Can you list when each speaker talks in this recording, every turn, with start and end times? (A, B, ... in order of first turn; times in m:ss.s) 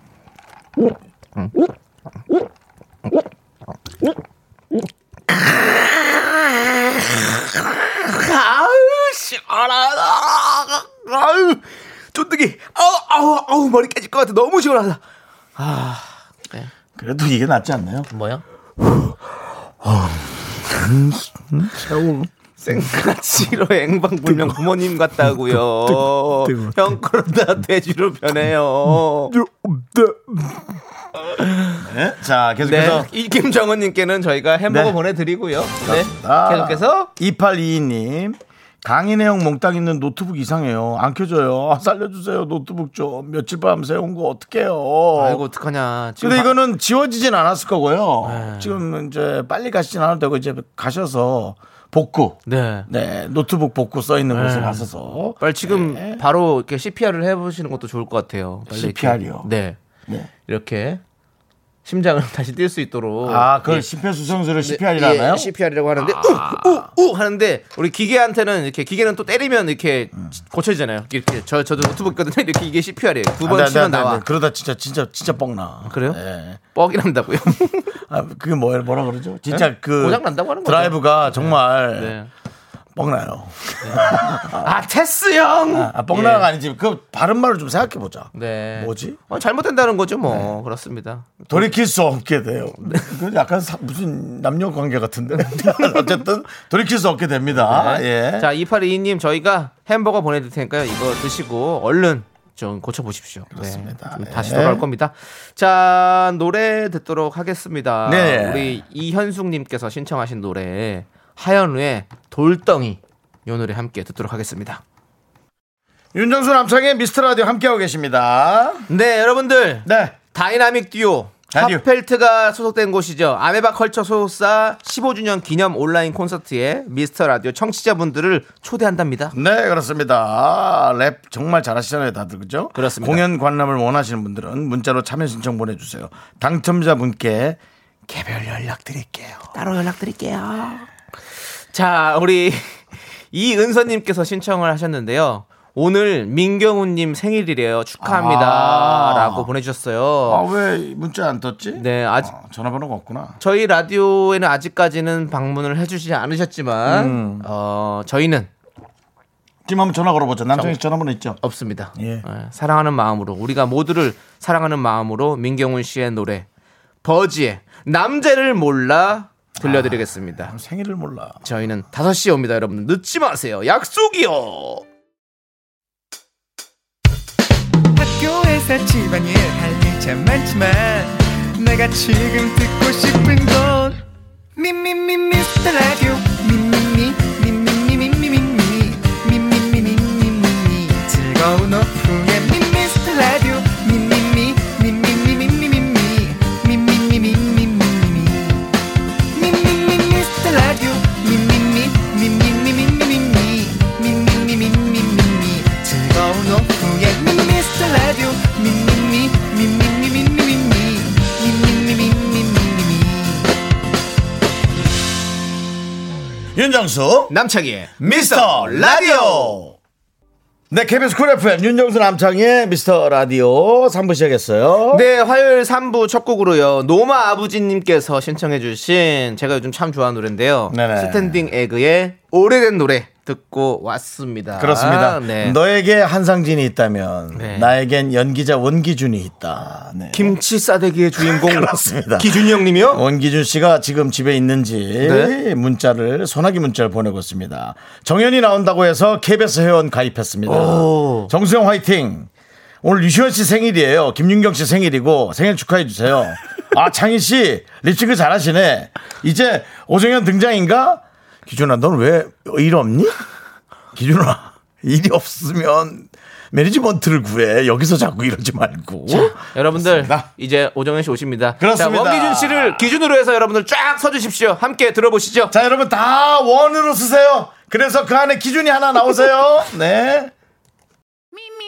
0:08.0-0:15.0 A
0:15.6-0:16.7 A
0:17.0-0:18.1 B
0:18.1-0:18.4 A
0:19.8-0:22.3 B
0:22.6-0:29.4 A
0:24.2-0:24.6 B
0:25.2-0:27.0 B
0:29.3-0:30.6 B
0:31.4-0:31.8 A
0:31.8-0:33.1 B
0:32.6-0:37.1 A
0:34.7-0:35.0 B
0:35.8-0:45.4 B
0:45.2-0:46.6 A
0:46.2-0:56.2 B
0:48.2-0:48.8 A
0:52.5-0:52.9 A
0:54.3-0:54.9 A
0:55.4-0:59.8 A
0:58.7-0:59.5 B
1:00.5-1:01.0 A
1:01.8-1:03.9 A
1:03.2-1:06.9 B
1:04.6-1:14.2 A
1:13.4-1:16.6 B
1:15.9-1:16.2 A
1:16.7-1:18.0 A
1:18.1-1:22.2 B
1:19.5-1:22.3 A
1:23.0-1:24.7 B
1:23.8-1:26.5 A
1:25.7-1:29.2 B
1:28.3-1:31.7 A
1:30.3-1:30.6 B
1:31.5-1:38.5 B
1:35.4-1:36.1 A
1:37.5-1:54.8 A
1:43.5-1:44.8 B
1:48.0-1:48.8 B
1:56.1-1:58.9 B
1:58.9-2:09.4 A
1:59.8-2:00.2 B
2:01.5-2:01.8 B
2:09.3-2:19.5 B
2:12.8-2:13.2 A
2:19.5-2:20.9 A
2:21.7-2:30.4 A
2:28.0-2:29.5 B
2:30.3-2:33.4 B
2:31.8-2:32.3 A
2:33.4-2:38.5 A
2:36.8-2:37.5 B
2:39.7-2:41.4 B
2:41.4-2:46.5 A
2:42.0-2:42.2 B
2:47.0-2:50.5 A
2:49.6-2:51.4 B
2:51.4-2:54.8 A
2:58.0-3:04.0 C
3:04.6-3:18.7 C
3:19.3-3:33.5 C
3:36.5-3:37.4 B
3:37.3-3:39.6 A
3:38.0-3:39.8 B
3:40.7-3:45.0 B
3:44.9-3:55.6 A
3:50.7-3:51.5 B
3:54.6-4:00.4 B
3:57.3-3:57.7 A
4:00.1-4:03.0 A
4:01.2-4:12.3 B
4:05.0-4:05.3 A
4:10.5-4:11.3 A
4:12.8-4:23.2 B
4:23.9-4:30.3 B
4:29.1-4:35.5 A
4:31.6-4:32.9 B
4:35.5-4:40.3 B